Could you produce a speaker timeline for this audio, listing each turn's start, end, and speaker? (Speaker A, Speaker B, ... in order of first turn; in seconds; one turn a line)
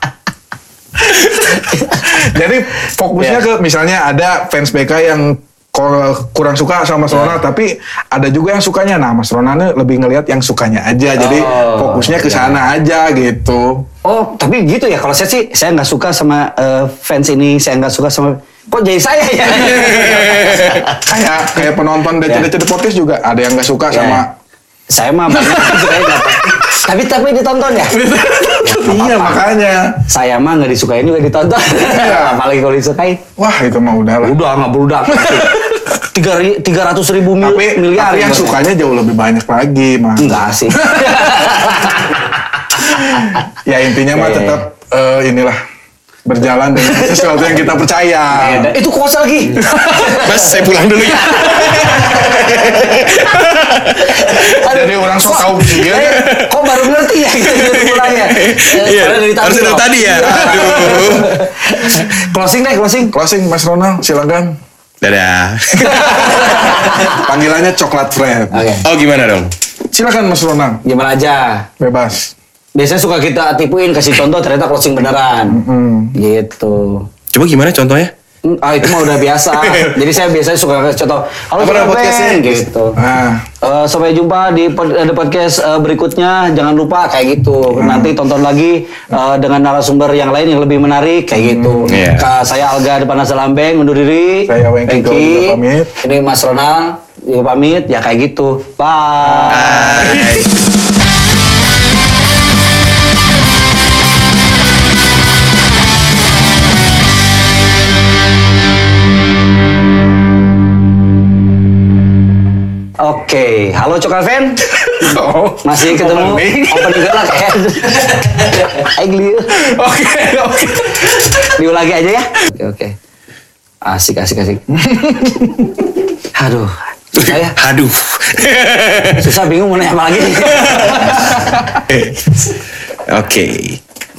Speaker A: 1.1-13.8
Speaker B: 1.5-2.1
Speaker B: 7.1-7.4
Speaker B: 11.2-12.6
Speaker B: 14.1-21.1
Speaker C: 19.7-20.8
Speaker A: 21.0-24.3
Speaker B: 23.9-24.2
Speaker B: 24.9-29.5
Speaker A: 25.5-26.6
Speaker A: 27.9-30.0
Speaker B: 30.1-33.2
Speaker A: 31.8-32.4
Speaker A: 33.4-34.4
Speaker B: 34.2-38.6
Speaker A: 35.2-35.7
Speaker A: 37.4-41.7
Speaker B: 40.2-42.4
Speaker A: 42.9-45.6
Speaker B: 43.1-43.4
Speaker B: 44.1-44.6
Speaker A: 46.2-48.7
Speaker B: 46.8-47.5
Speaker B: 48.3-53.4
Speaker A: 49.6-50.2
Speaker C: 49.9-54.6
Speaker B: 54.0-63.2
Speaker A: 54.5-56.3
Speaker C: 55.9-56.9
Speaker C: 57.4-61.5
Speaker A: 63.1-64.6
Speaker C: 65.0-66.7
Speaker A: 65.8-68.8
Speaker B: 66.0-67.2
Speaker B: 68.5-68.9
Speaker C: 68.8-69.5
Speaker A: 69.9-70.8
Speaker B: 70.8-71.7
Speaker A: 71.8-72.3
Speaker B: 72.8-75.6
Speaker A: 75.5-76.2
Speaker B: 76.1-77.1
Speaker C: 77.3-78.1
Speaker B: 78.5-83.0
Speaker C: 78.8-80.0
Speaker A: 81.6-82.3
Speaker C: 82.0-82.5
Speaker A: 83.0-83.5
Speaker B: 83.6-100.3
Speaker A: 87.7-88.2
Speaker A: 91.4-91.9
Speaker C: 91.9-92.3
Speaker A: 94.5-95.9
Speaker A: 99.2-100.3
Speaker C: 99.5-100.5
Speaker B: 113.0-114.7
Speaker A: 114.8-118.2
Speaker B: 115.6-119.7
Speaker A: 119.5-121.4
Speaker B: 121.1-123.0
Speaker B: 123.8-124.6
Speaker A: 124.9-125.7
Speaker B: 126.4-127.6
Speaker C: 127.2-129.3
Speaker B: 129.2-131.5
Speaker C: 130.6-132.5
Speaker C: 133.1-133.8